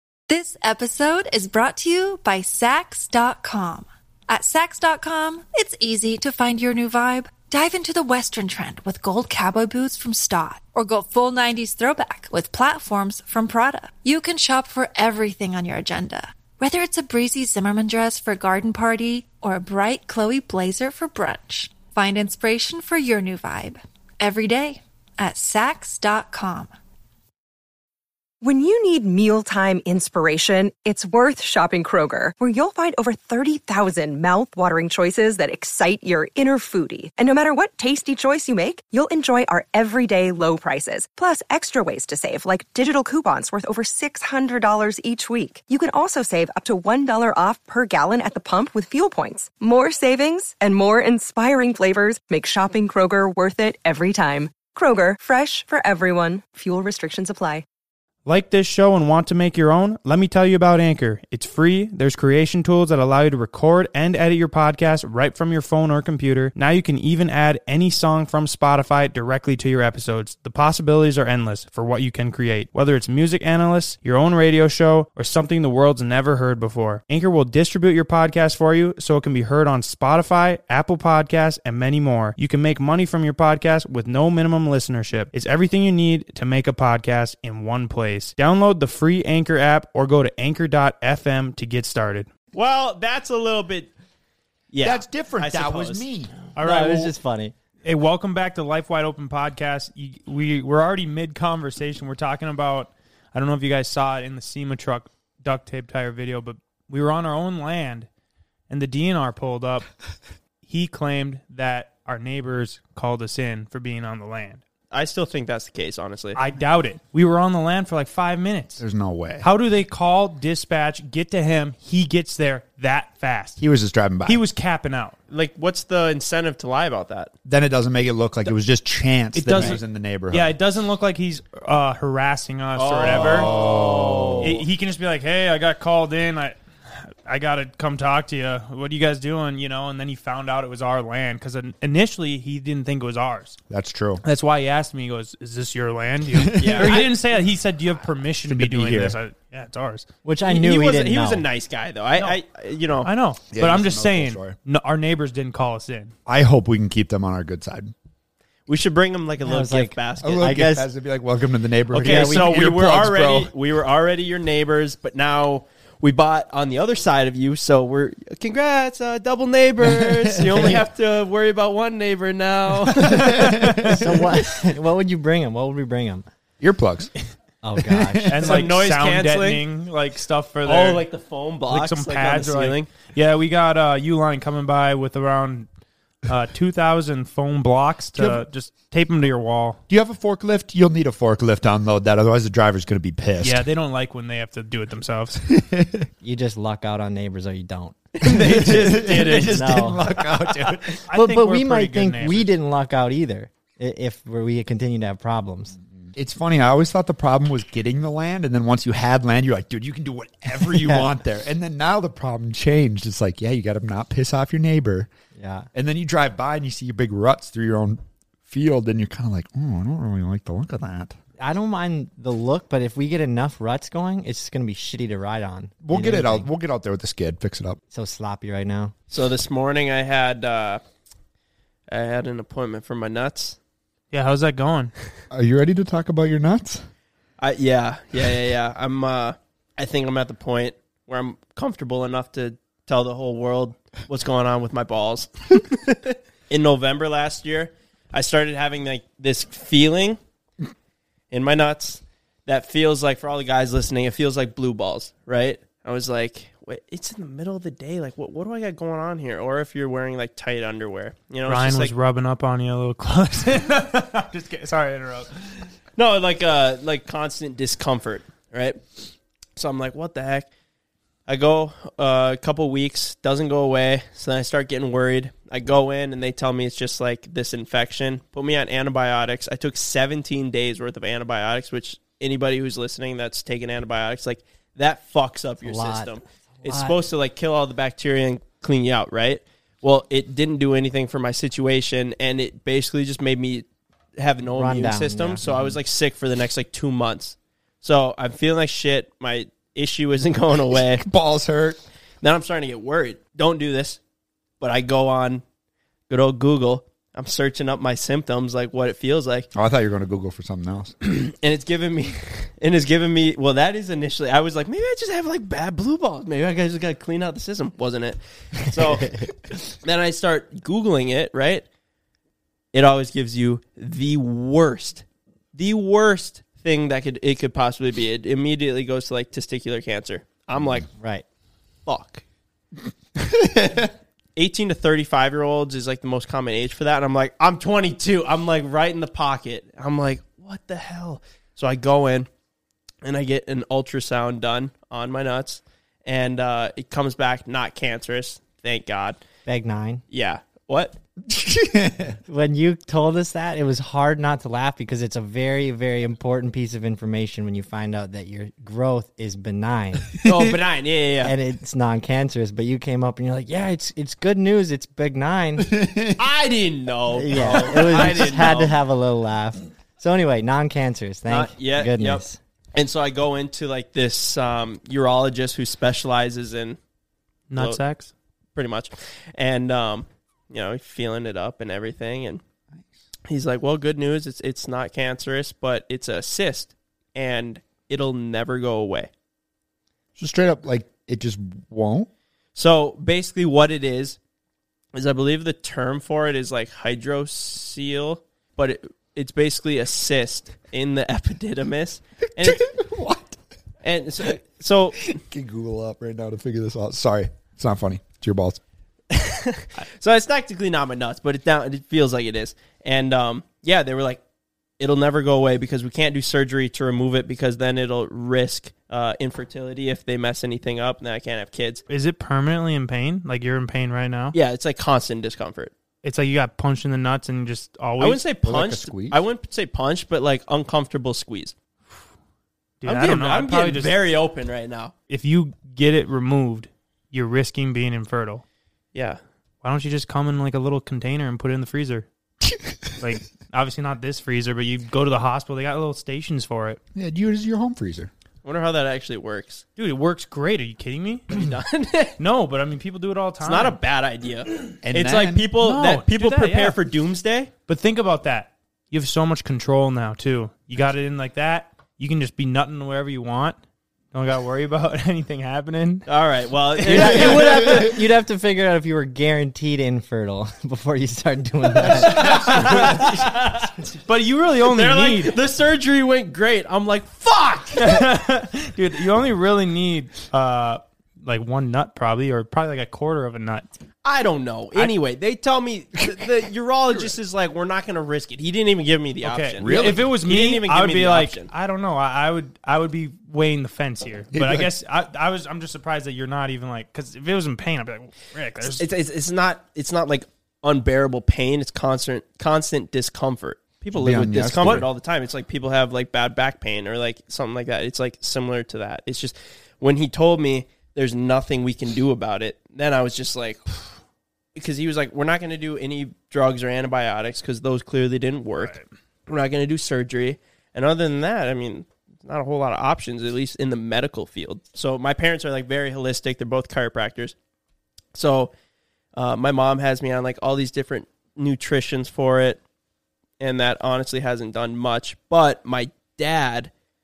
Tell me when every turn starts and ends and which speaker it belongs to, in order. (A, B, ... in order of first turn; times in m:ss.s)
0:00.3-0:26.7 A
0:28.4-0:57.6 B
0:58.3-1:32.3 C
1:32.5-1:33.9 D
1:34.7-1:36.0 D
1:34.8-1:36.3 E
1:36.6-1:37.1 C
1:36.6-1:37.5 F
1:37.8-1:48.1 C
1:48.7-1:49.9 C
1:50.6-1:54.6 C
1:54.9-1:56.4 D
1:56.4-1:58.8 C
1:58.8-1:59.5 E
1:59.4-2:03.6 C
2:03.6-2:04.4 E
2:04.3-2:05.2 C
2:05.3-2:07.3 D
2:07.5-2:10.6 E
2:09.4-2:13.5 C
2:12.8-2:14.6 D
2:13.2-2:14.5 E
2:14.4-2:23.6 C
2:23.7-2:24.2 E
2:24.2-2:30.0 C
2:26.3-2:27.1 E
2:26.6-2:27.1 D
2:28.5-2:29.2 E
2:30.2-2:31.4 F
2:30.5-2:33.1 D
2:33.0-2:36.1 C
2:33.5-2:34.6 E
2:36.3-2:37.9 E
2:38.7-2:40.4 D
2:39.4-2:40.9 F
2:40.2-2:43.5 E
2:41.9-2:53.5 D
2:42.0-2:42.5 F
2:49.8-2:50.8 E
2:52.9-2:54.0 E
2:53.6-2:54.0 C
2:53.8-2:56.2 F
2:56.6-2:57.1 E
2:57.6-2:58.3 F
2:57.8-2:58.6 E
2:58.3-3:01.0 C
2:58.4-2:59.6 D
3:00.7-3:02.9 D
3:01.7-3:05.7 C
3:06.3-3:09.8 C
3:08.2-3:08.4 E
3:09.9-3:13.7 E
3:13.4-3:15.4 C
3:15.5-3:16.1 E
3:16.2-3:18.0 F
3:18.2-3:20.9 D
3:18.2-3:21.0 E
3:18.6-3:20.0 F
3:21.1-3:22.5 C
3:21.1-3:25.8 F
3:26.1-3:35.1 E
3:35.4-3:35.7 F
3:35.7-3:41.2 E
3:41.4-3:46.5 F
3:45.8-3:47.8 E
3:47.9-3:48.9 F
3:49.1-3:50.8 D
3:51.9-3:53.6 D
3:54.1-3:54.9 C
3:55.3-3:56.8 E
3:57.4-4:10.2 D
4:11.3-4:21.9 D
4:21.5-4:25.3 C
4:26.0-4:28.8 D
4:29.6-4:30.5 D
4:31.3-4:53.7 D
4:45.6-4:47.0 F
4:54.2-5:01.0 D
4:54.5-4:55.4 F
5:00.8-5:01.8 E
5:02.2-5:04.0 D
5:04.6-5:05.4 D
5:06.1-5:09.5 D
5:09.5-5:11.0 E
5:11.0-5:19.3 D
5:19.8-5:21.6 D
5:22.7-5:30.9 D
5:31.0-5:31.2 F
5:31.9-5:32.2 D
5:33.2-5:33.9 E
5:34.4-5:42.3 D
5:43.0-5:49.2 D
5:49.5-5:50.0 F
5:50.1-5:51.0 D
5:51.3-5:52.2 E
5:52.3-6:00.1 F
6:00.2-6:00.5 E
6:00.2-6:01.3 D
6:01.2-6:05.7 F
6:05.6-6:06.2 E
6:06.2-6:08.8 D
6:07.2-6:12.4 F
6:07.3-6:08.6 E
6:11.3-6:12.2 D
6:12.8-6:16.8 D
6:17.5-6:18.1 C
6:18.6-6:22.4 D
6:23.3-6:29.1 D
6:30.2-6:32.1 E
6:32.6-6:34.2 D
6:34.9-6:42.6 D
6:42.4-6:43.4 E
6:43.8-6:45.2 D
6:45.1-6:48.6 E
6:49.1-6:54.2 D
6:54.8-7:01.8 D
7:01.9-7:04.4 C
7:04.4-7:05.7 D
7:06.0-7:08.2 C
7:08.0-7:11.6 D
7:08.4-7:09.2 E
7:12.8-7:14.0 C
7:12.8-7:14.9 D
7:15.1-7:18.4 C
7:18.9-7:19.2 D
7:19.6-7:22.1 C
7:23.0-7:26.8 C
7:26.9-7:28.1 E
7:28.4-7:29.6 D
7:29.8-7:31.3 C
7:31.3-7:32.2 D
7:32.2-7:33.8 C
7:33.4-7:37.5 D
7:34.8-7:35.5 E
7:35.6-7:36.8 C
7:37.7-7:43.6 C
7:44.1-7:46.1 C
7:46.1-7:47.9 D
7:46.9-7:52.7 F
7:47.2-7:47.8 E
7:51.8-7:53.0 C
7:51.9-7:53.7 D
7:52.2-7:53.3 E
7:54.1-7:55.4 C
7:54.6-7:58.0 D
7:57.8-8:03.7 C
8:04.0-8:11.5 D
8:09.2-8:18.9 C
8:09.6-8:10.1 E
8:14.3-8:14.7 E
8:18.6-8:33.8 D
8:23.9-8:24.9 E
8:34.6-8:38.8 D
8:38.6-8:38.8 C
8:39.3-8:47.4 D
8:48.1-8:48.5 D
8:49.2-8:52.6 D
8:53.4-8:56.7 D